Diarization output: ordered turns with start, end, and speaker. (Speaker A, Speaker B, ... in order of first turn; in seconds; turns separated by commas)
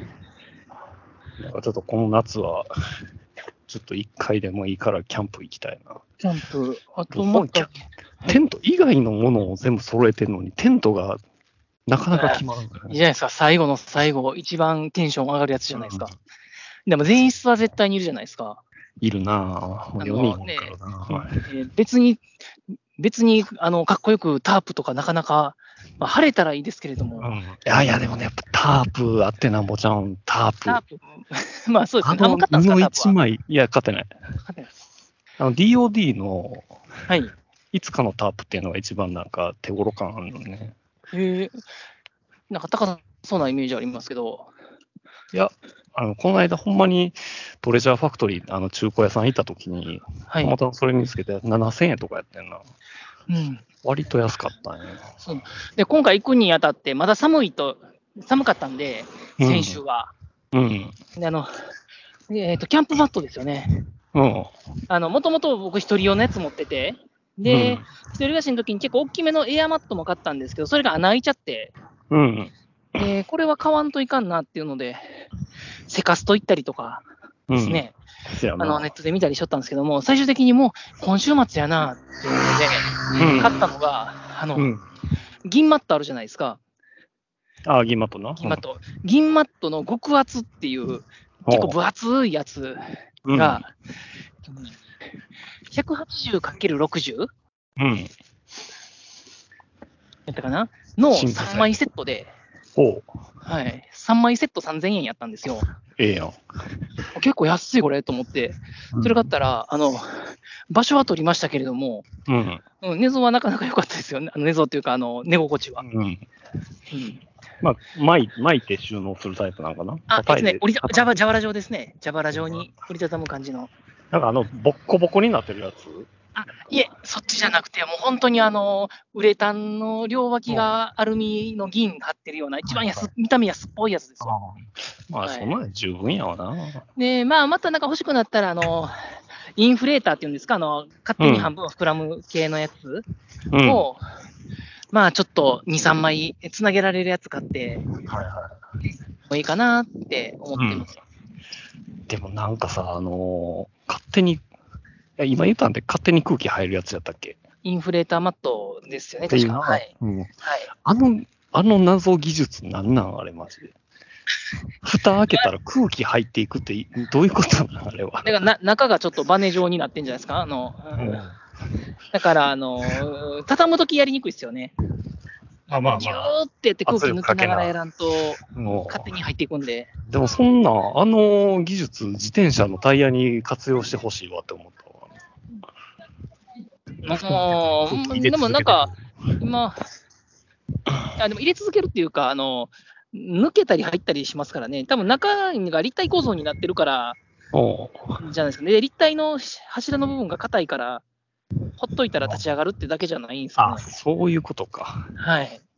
Speaker A: 1.4-2.7, Speaker A: 3.7-6.0, Speaker B: 6.2-8.3, Speaker A: 7.1-11.2, Speaker A: 11.9-13.0, Speaker B: 12.1-16.1, Speaker A: 15.7-16.1, Speaker B: 16.9-18.6, Speaker A: 19.0-21.5, Speaker B: 20.0-22.2, Speaker B: 23.0-27.3, Speaker A: 27.2-30.8, Speaker B: 30.6-33.1, Speaker A: 32.0-34.1, Speaker A: 35.4-36.7, Speaker B: 37.1-37.3, Speaker A: 37.7-40.7, Speaker B: 41.1-41.6, Speaker B: 42.5-44.5, Speaker A: 45.3-52.6, Speaker B: 53.3-53.6, Speaker A: 53.8-55.1, Speaker B: 55.2-60.1, Speaker A: 59.4-59.8, Speaker A: 60.5-60.9, Speaker B: 61.1-61.5, Speaker B: 62.3-63.8, Speaker A: 64.1-64.5, Speaker B: 64.9-71.7, Speaker A: 67.4-67.8, Speaker A: 72.1-72.5, Speaker B: 73.0-75.2, Speaker B: 75.9-77.0, Speaker A: 77.5-78.9, Speaker B: 77.6-78.0, Speaker B: 78.6-84.7, Speaker A: 83.1-83.5, Speaker A: 84.5-84.8, Speaker B: 85.4-86.6, Speaker A: 87.6-88.6, Speaker B: 88.4-93.7, Speaker A: 91.4-91.8, Speaker A: 93.2-93.6, Speaker B: 95.7-97.3, Speaker A: 97.8-98.1, Speaker B: 100.3-102.3, Speaker A: 101.1-101.7, Speaker A: 102.8-103.1, Speaker B: 103.4-105.7, Speaker A: 105.9-106.4, Speaker B: 107.1-112.1, Speaker A: 108.9-109.3, Speaker A: 112.3-112.6, Speaker B: 112.8-115.8, Speaker A: 115.8-116.2, Speaker B: 116.9-117.2, Speaker A: 117.6-121.2, Speaker B: 120.1-123.7, Speaker A: 122.3-122.7, Speaker A: 124.1-126.1, Speaker B: 126.4-134.4, Speaker A: 132.7-133.1, Speaker A: 134.2-136.8, Speaker B: 135.2-135.5, Speaker B: 136.9-138.9, Speaker B: 139.6-143.0, Speaker A: 141.2-141.5, Speaker A: 143.5-143.9, Speaker B: 143.6-144.0, Speaker B: 144.9-147.9, Speaker A: 148.0-148.5, Speaker B: 149.3-151.0, Speaker A: 150.6-150.9, Speaker A: 152.1-154.4, Speaker A: 155.2-157.4, Speaker B: 157.6-159.9, Speaker A: 159.3-160.3, Speaker B: 160.4-160.7, Speaker A: 160.8-163.7, Speaker A: 164.8-168.3, Speaker B: 168.2-171.2, Speaker A: 170.9-171.3, Speaker B: 172.1-174.7, Speaker A: 175.7-176.3, Speaker B: 175.7-179.9, Speaker A: 176.9-177.7, Speaker A: 178.5-179.1, Speaker A: 180.1-185.1, Speaker B: 187.0-189.8, Speaker A: 187.2-189.0, Speaker B: 191.2-197.2, Speaker A: 197.5-198.2, Speaker B: 198.2-201.0, Speaker B: 201.8-203.8, Speaker A: 203.6-205.1, Speaker B: 205.2-205.6